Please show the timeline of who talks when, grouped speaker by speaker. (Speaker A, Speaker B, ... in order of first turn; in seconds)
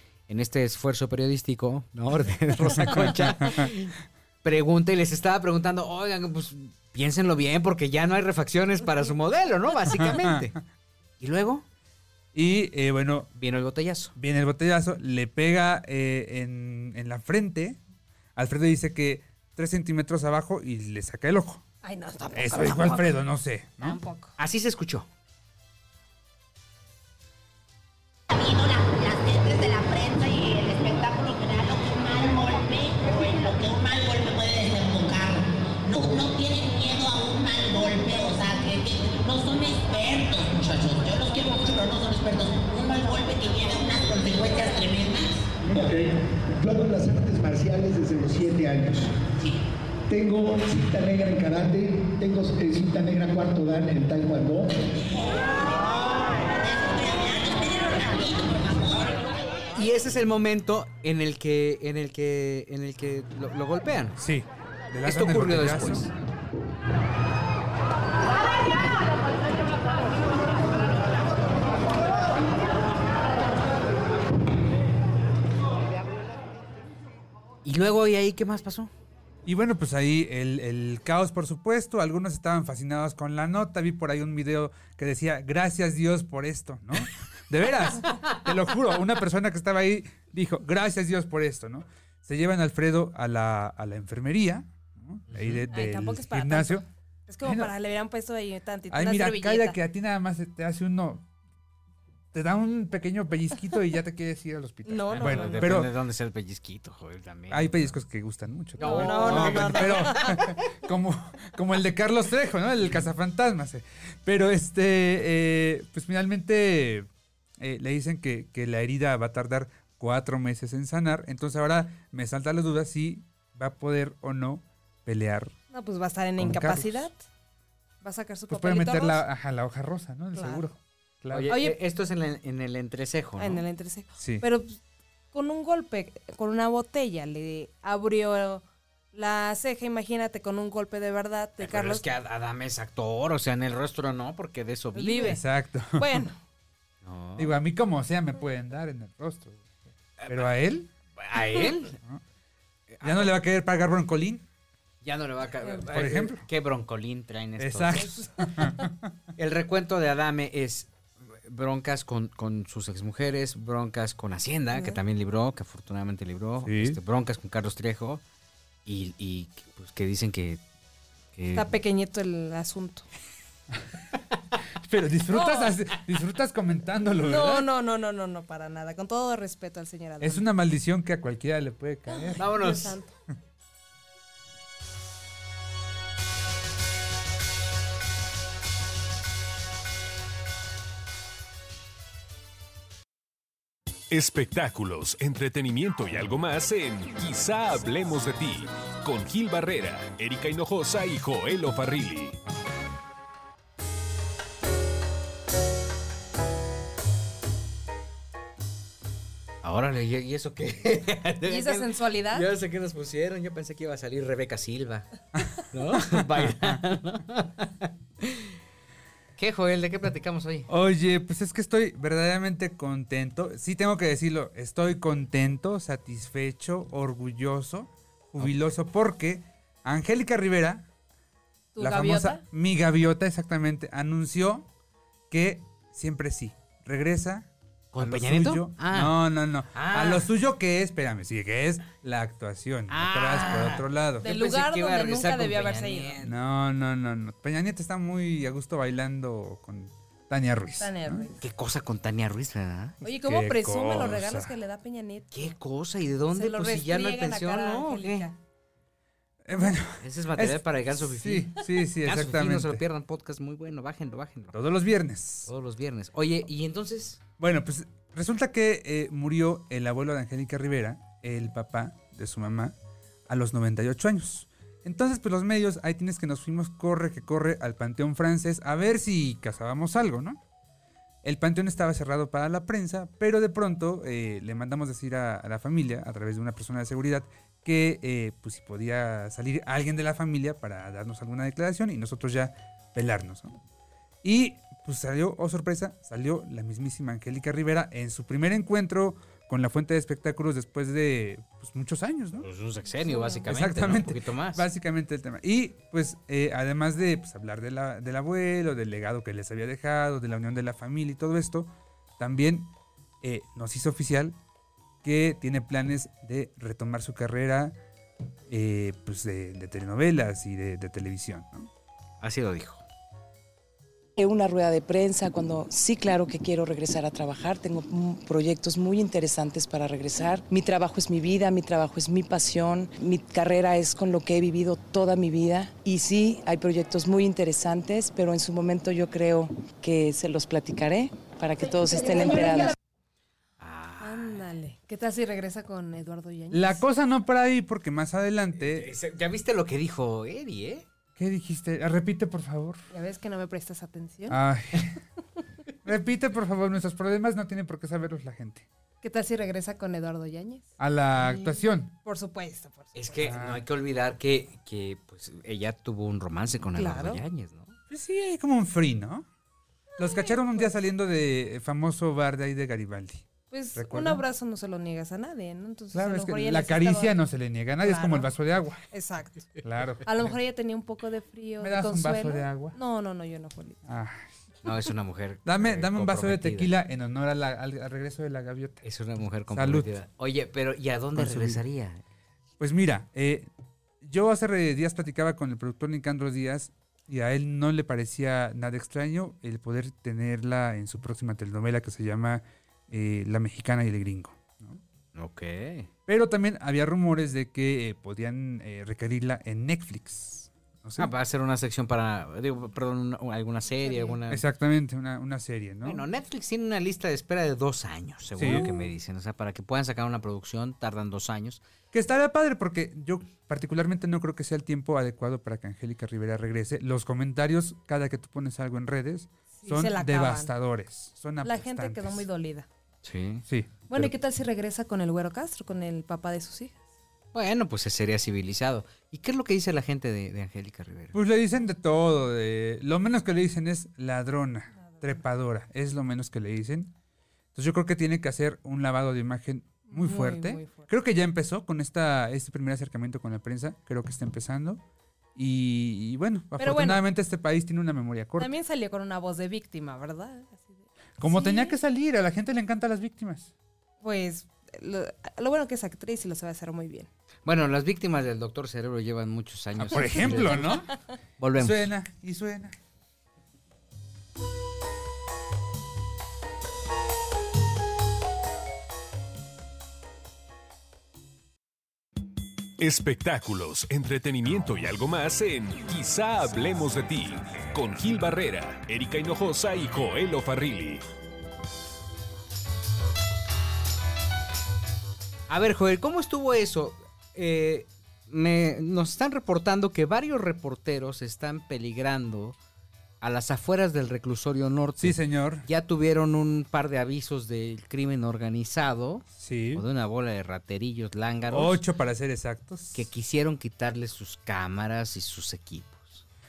Speaker A: 0.3-10.6, 11.2-11.6, 13.4-14.1, 24.4-25.1, 59.7-64.2, 65.0-66.1, 77.6-78.9, 95.3-95.6, 105.1-108.0, 108.8-110.3, 131.3-133.6, 141.6-145.4, 147.0-147.6, 150.2-150.6, 151.2-152.0, 152.9-153.3, 155.0-158.3, 159.4-160.9, 161.4-168.2, 168.8-170.6, 171.3-171.7, 182.4-183.0, 209.6-215.1, 215.7-218.5, 219.4-220.7, 237.9-239.2, 239.7-240.3, 242.9-246.3, 251.4-253.0, 255.3-258.3, 260.0-264.6, 265.4-267.2, 302.4-304.7, 322.2-322.8, 343.6-344.6, 348.5-350.8, 362.9-367.8, 384.6-386.7, 388.8-392.0, 405.1-405.9, 411.0-414.4, 415.8-421.6, 433.0-433.4, 437.3-441.2, 467.4-470.8, 471.4-471.9, 495.5-502.6, 503.2-511.8, 512.9-516.2
Speaker B: 2.6-3.7, 9.9-10.6, 12.3-13.3, 14.2-17.8, 18.4-21.6, 22.4-24.0, 64.2-66.1, 79.4-96.8, 97.4-97.7, 98.9-101.2, 102.3-105.9, 107.5-117.1, 117.6-125.5, 126.4-127.1, 128.5-131.6, 134.2-134.4, 145.2-146.2, 147.4-149.7, 150.3-150.9, 153.0-154.4, 155.9-156.4, 157.6-159.1, 166.6-167.0, 174.8-177.7, 180.2-182.4, 215.3-216.8, 220.7-230.8, 231.8-234.7, 235.3-244.3, 246.2-251.3, 253.2-254.6, 259.4-262.8, 264.5-265.5, 267.4-272.8, 273.3-280.4, 281.2-293.6, 294.2-302.5, 303.5-314.4, 315.0-317.8, 318.5-321.7, 346.5-348.9, 351.2-352.8, 354.3-354.9, 355.8-358.7, 360.8-361.9, 363.2-363.6, 367.9-369.2, 370.0-374.2, 375.9-378.8, 379.6-380.2, 381.6-382.8, 383.9-384.2, 385.4-388.8, 389.5-389.9, 391.1-391.6, 392.6-393.5, 394.0-404.8, 406.1-411.1, 414.3-416.1, 418.4-418.7, 421.9-432.2, 433.5-434.1, 441.1-446.9, 447.6-454.8, 455.4-458.5, 461.2-463.5, 469.8-470.9, 471.6-472.8, 505.0-505.7, 509.4-509.9, 511.5-513.1
Speaker C: 21.8-23.2, 23.8-24.4, 95.7-99.8, 104.8-105.8, 108.8-110.4, 125.7-127.2, 128.0-129.2, 130.3-130.7, 131.5-131.8, 133.3-134.8, 135.3-142.1, 144.9-146.3, 164.7-165.0, 171.5-173.1, 175.3-175.7, 177.2-180.4, 182.1-183.1, 211.4-212.5, 231.7-232.4, 244.2-246.2, 250.8-251.3, 253.0-255.3, 256.3-258.4, 303.0-303.4, 344.0-346.8, 352.9-354.4, 359.0-363.3, 366.7-367.2, 370.0-370.7, 373.5-377.1, 377.8-378.3, 378.9-379.5, 380.0-383.8, 413.8-414.2, 418.4-418.7, 429.6-430.5, 431.4-432.7, 433.9-436.8, 449.9-450.9, 456.6-457.1, 458.4-461.8, 464.0-467.1
Speaker D: 28.3-45.5, 55.6-59.2
Speaker E: 45.7-49.1, 50.1-54.7
Speaker F: 194.1-202.3, 482.8-491.0
Speaker G: 324.2-342.7